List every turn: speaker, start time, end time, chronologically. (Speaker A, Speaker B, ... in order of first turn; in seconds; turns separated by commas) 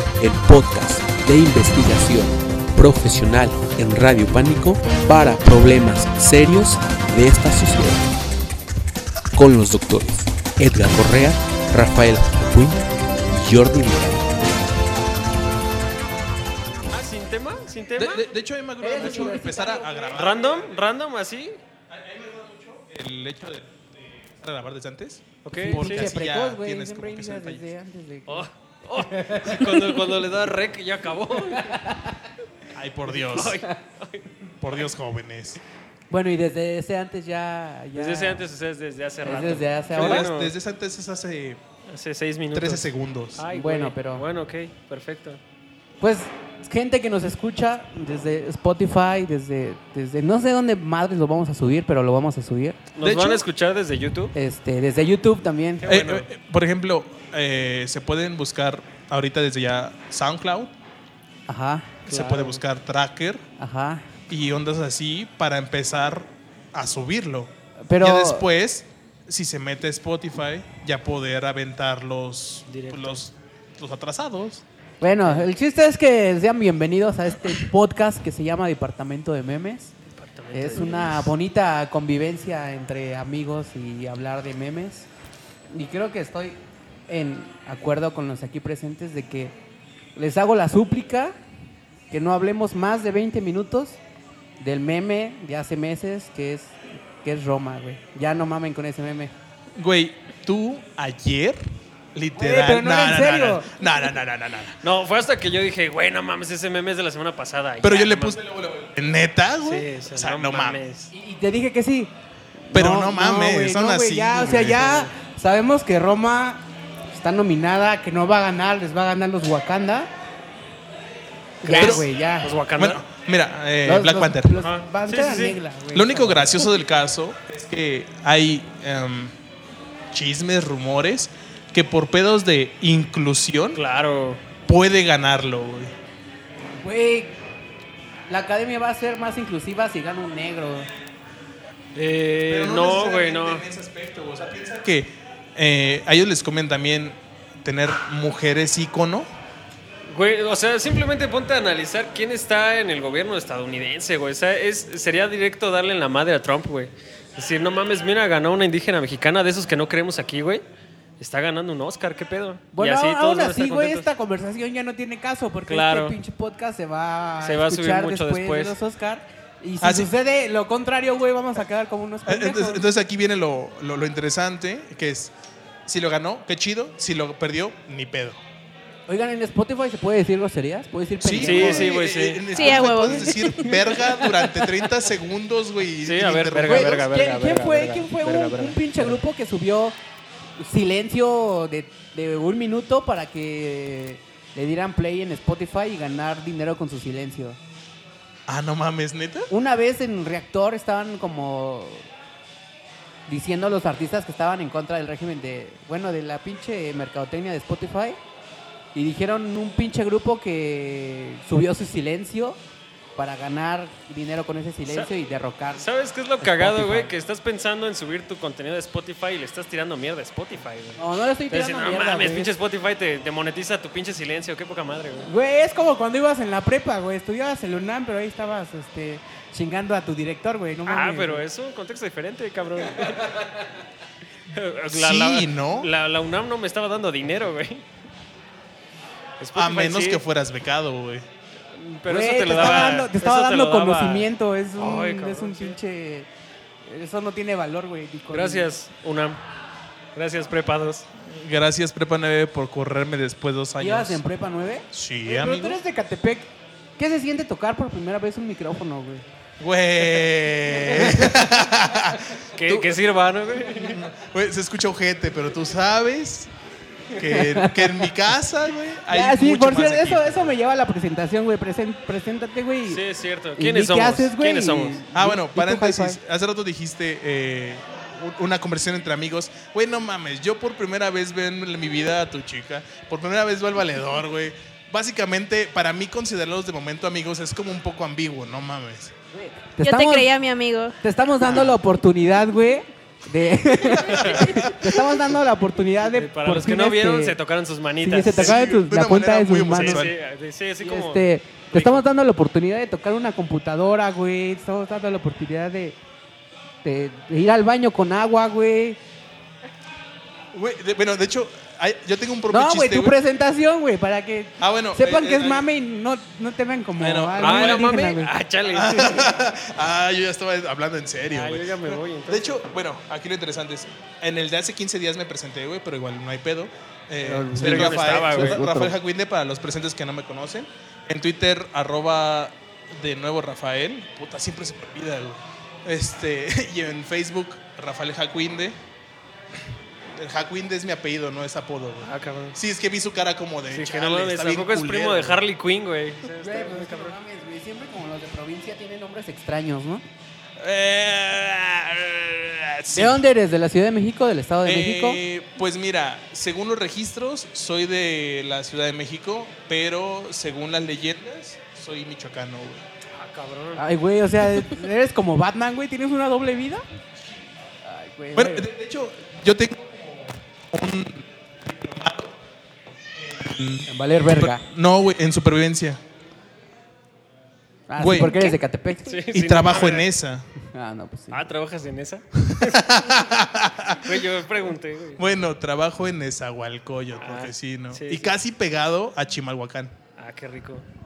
Speaker A: 0.2-8.1, Speaker A: 9.3-14.5, Speaker B: 16.9-18.2, Speaker C: 18.0-20.8, Speaker D: 18.8-20.2, Speaker B: 19.0-19.3, Speaker B: 20.1-21.6, Speaker C: 21.9-27.7, Speaker B: 25.4-26.1, Speaker D: 25.6-30.0, Speaker B: 28.3-31.8, Speaker D: 31.5-32.0, Speaker C: 32.7-33.6, Speaker B: 33.1-34.3, Speaker C: 34.6-35.6, Speaker D: 36.1-38.4, Speaker B: 37.9-40.5, Speaker D: 39.2-40.3, Speaker C: 39.9-41.6, Speaker B: 41.9-45.4, Speaker C: 42.5-43.4, Speaker D: 43.5-44.2, Speaker D: 46.0-52.8, Speaker B: 53.0-54.3, Speaker C: 53.0-53.4, Speaker D: 54.3-55.9, Speaker B: 55.8-56.3, Speaker C: 55.9-60.7, Speaker D: 61.5-61.9, Speaker C: 62.1-63.4, Speaker B: 62.1-62.6, Speaker D: 63.6-64.0, Speaker C: 64.3-74.6, Speaker D: 67.9-68.5, Speaker B: 72.7-73.1, Speaker D: 75.0-79.9, Speaker B: 80.1-81.2, Speaker D: 80.5-85.1, Speaker D: 85.7-89.5, Speaker D: 90.2-91.3, Speaker D: 92.1-94.0, Speaker D: 94.6-99.3, Speaker C: 99.8-101.6, Speaker C: 102.1-104.8, Speaker D: 102.3-103.7, Speaker B: 104.8-108.4, Speaker C: 107.8-110.8, Speaker B: 109.6-111.1, Speaker D: 111.1-112.1, Speaker D: 112.7-120.1, Speaker C: 112.7-115.0, Speaker D: 121.6-122.5, Speaker B: 121.6-123.0, Speaker C: 121.7-122.0, Speaker C: 122.8-124.5, Speaker D: 123.8-126.5, Speaker B: 124.6-125.6, Speaker C: 125.9-129.3, Speaker C: 130.1-133.8, Speaker B: 133.8-134.4, Speaker C: 134.7-135.9, Speaker D: 136.8-137.3, Speaker D: 138.3-140.9, Speaker B: 141.9-143.6, Speaker C: 142.5-149.3, Speaker B: 150.1-160.6, Speaker B: 161.2-164.1, Speaker D: 162.7-172.8, Speaker B: 165.7-166.2, Speaker B: 167.4-168.7, Speaker C: 169.8-170.1, Speaker C: 172.3-175.3, Speaker C: 175.8-178.4, Speaker D: 179.1-181.9, Speaker C: 181.2-187.1, Speaker B: 181.4-183.0, Speaker E: 182.5-183.8, Speaker B: 186.0-189.2, Speaker D: 186.6-189.9, Speaker D: 190.6-197.6, Speaker C: 198.5-199.5, Speaker D: 199.5-202.1, Speaker D: 203.3-208.2, Speaker D: 208.9-212.6, Speaker D: 213.2-215.8, Speaker B: 215.8-221.0, Speaker D: 216.4-217.1, Speaker D: 221.0-222.5, Speaker B: 221.5-225.3, Speaker D: 225.2-231.4, Speaker B: 230.9-233.6, Speaker B: 234.5-237.8, Speaker C: 234.9-235.9, Speaker B: 239.4-240.2, Speaker C: 239.5-241.2, Speaker B: 241.7-245.8, Speaker D: 242.1-246.3, Speaker D: 246.8-248.7, Speaker B: 248.3-249.4, Speaker B: 250.1-251.1, Speaker C: 251.2-254.2, Speaker D: 253.8-259.2, Speaker C: 254.9-255.8, Speaker C: 259.6-262.9, Speaker B: 262.6-264.0, Speaker C: 263.8-266.5, Speaker C: 267.1-270.5, Speaker D: 267.2-268.1, Speaker D: 269.1-273.0, Speaker B: 272.9-275.0, Speaker D: 273.6-276.2, Speaker C: 275.1-289.1, Speaker D: 289.3-290.3, Speaker E: 289.8-290.9, Speaker D: 291.0-297.4, Speaker C: 291.4-291.8, Speaker B: 294.1-294.4, Speaker C: 294.2-294.9, Speaker B: 296.1-298.6, Speaker D: 298.0-300.0, Speaker C: 298.3-300.1, Speaker B: 299.7-302.0, Speaker D: 300.8-305.9, Speaker D: 306.8-309.0, Speaker C: 310.5-313.2, Speaker D: 312.5-318.3, Speaker C: 314.6-315.7, Speaker C: 317.0-317.9, Speaker B: 317.4-319.3, Speaker C: 318.7-338.8, Speaker B: 321.3-322.6, Speaker D: 327.2-328.9, Speaker B: 327.6-328.6, Speaker C: 340.1-345.4, Speaker B: 342.0-342.6, Speaker B: 343.7-347.1, Speaker D: 346.4-350.0, Speaker C: 350.6-353.3, Speaker D: 352.9-355.2, Speaker C: 354.6-362.8, Speaker B: 363.1-363.8, Speaker D: 363.8-366.8, Speaker D: 367.8-368.7, Speaker C: 368.3-372.4, Speaker C: 373.1-376.0, Speaker D: 373.9-374.6, Speaker D: 377.9-379.1, Speaker C: 378.0-378.4, Speaker E: 378.2-378.6, Speaker B: 379.0-380.1, Speaker C: 379.3-380.4, Speaker D: 380.7-381.4, Speaker B: 381.3-382.8, Speaker C: 382.5-384.2, Speaker B: 384.0-385.2, Speaker C: 385.2-389.9, Speaker B: 387.2-388.3, Speaker B: 390.2-390.9